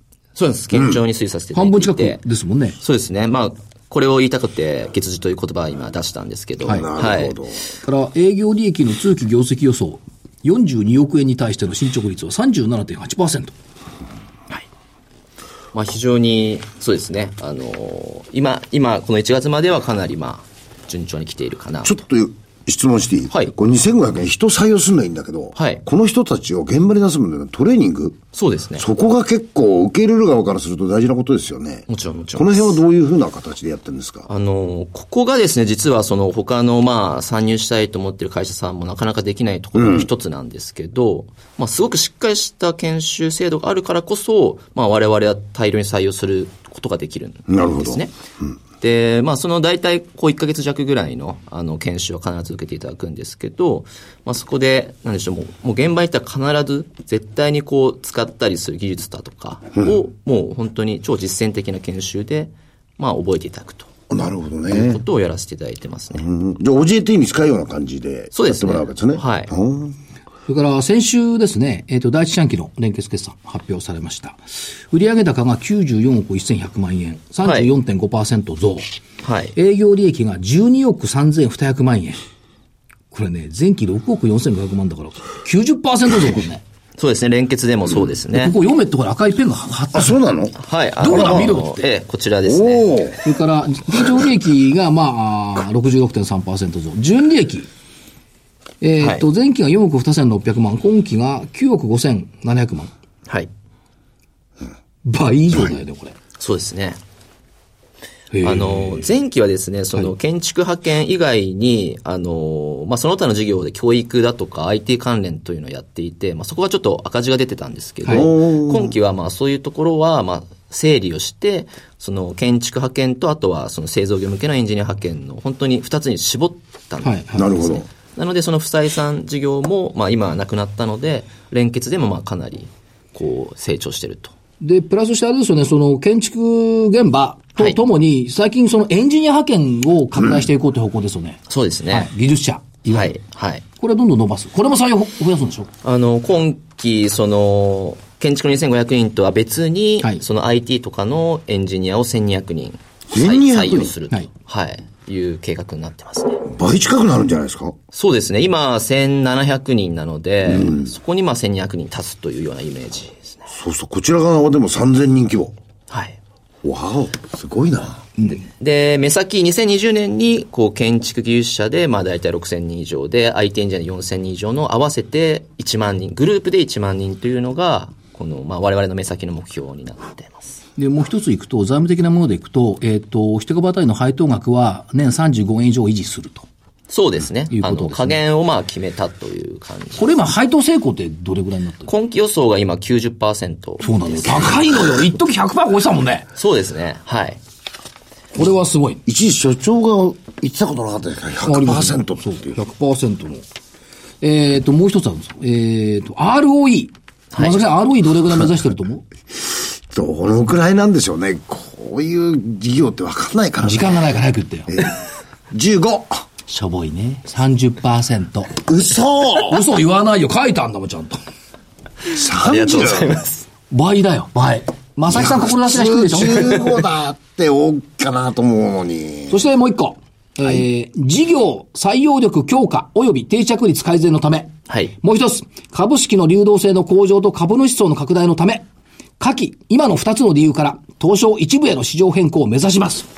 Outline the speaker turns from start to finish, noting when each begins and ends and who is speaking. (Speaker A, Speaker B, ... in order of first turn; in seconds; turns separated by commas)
Speaker A: 0.3-2.2, Speaker B: 0.7-1.0, Speaker C: 1.5-2.8, Speaker A: 2.8-7.4, Speaker B: 6.7-7.6, Speaker C: 7.8-13.5, Speaker A: 15.7-21.9, Speaker B: 21.8-28.2, Speaker A: 25.6-25.8, Speaker A: 28.3-28.8, Speaker B: 28.8-34.3, Speaker A: 31.9-32.8, Speaker A: 34.3-48.1, Speaker B: 39.8-40.1, Speaker B: 47.5-48.0, Speaker A: 48.8-63.9, Speaker B: 64.1-65.0, Speaker A: 64.7-66.2, Speaker B: 66.1-69.9, Speaker A: 68.3-69.5, Speaker C: 70.5-74.4, Speaker C: 74.9-78.8, Speaker A: 77.4-77.7, Speaker A: 79.2-79.5, Speaker C: 79.5-82.2, Speaker C: 83.1-86.6, Speaker A: 87.0-88.5, Speaker C: 88.3-90.2, Speaker B: 89.9-91.5, Speaker A: 90.6-93.1, Speaker C: 91.0-91.8, Speaker B: 92.5-93.2, Speaker C: 93.2-97.7, Speaker C: 98.8-102.9, Speaker C: 105.0-106.2, Speaker A: 106.4-107.0, Speaker C: 108.3-109.1, Speaker A: 108.4-134.3, Speaker B: 118.1-118.9, Speaker C: 127.0-127.5, Speaker B: 127.3-127.8, Speaker C: 134.6-141.4, Speaker A: 141.5-142.1, Speaker C: 141.9-143.1, Speaker A: 142.9-143.6, Speaker C: 143.8-145.7, Speaker A: 145.8-156.5, Speaker B: 153.1-153.9, Speaker B: 156.5-157.7, Speaker A: 157.9-163.4, Speaker B: 160.5-160.8, Speaker B: 163.5-165.5, Speaker A: 165.9-166.2, Speaker B: 166.6-168.0, Speaker A: 168.2-180.6, Speaker C: 180.8-186.4, Speaker A: 186.9-190.1, Speaker C: 187.5-188.2, Speaker C: 190.0-191.9, Speaker A: 191.8-194.5, Speaker C: 193.8-196.2, Speaker A: 196.3-197.4, Speaker C: 198.3-199.0, Speaker B: 199.1-202.6, Speaker C: 201.4-203.4, Speaker C: 204.2-209.0, Speaker A: 207.3-207.6, Speaker B: 209.5-213.9, Speaker C: 213.6-214.7, Speaker B: 214.7-214.9, Speaker B: 215.5-216.2, Speaker C: 216.5-218.6, Speaker B: 218.6-219.6, Speaker C: 219.4-221.2, Speaker B: 222.1-223.2, Speaker A: 222.4-223.4, Speaker C: 223.7-226.5, Speaker B: 225.1-229.4, Speaker C: 229.3-238.6, Speaker A: 234.7-234.9, Speaker C: 239.2-243.1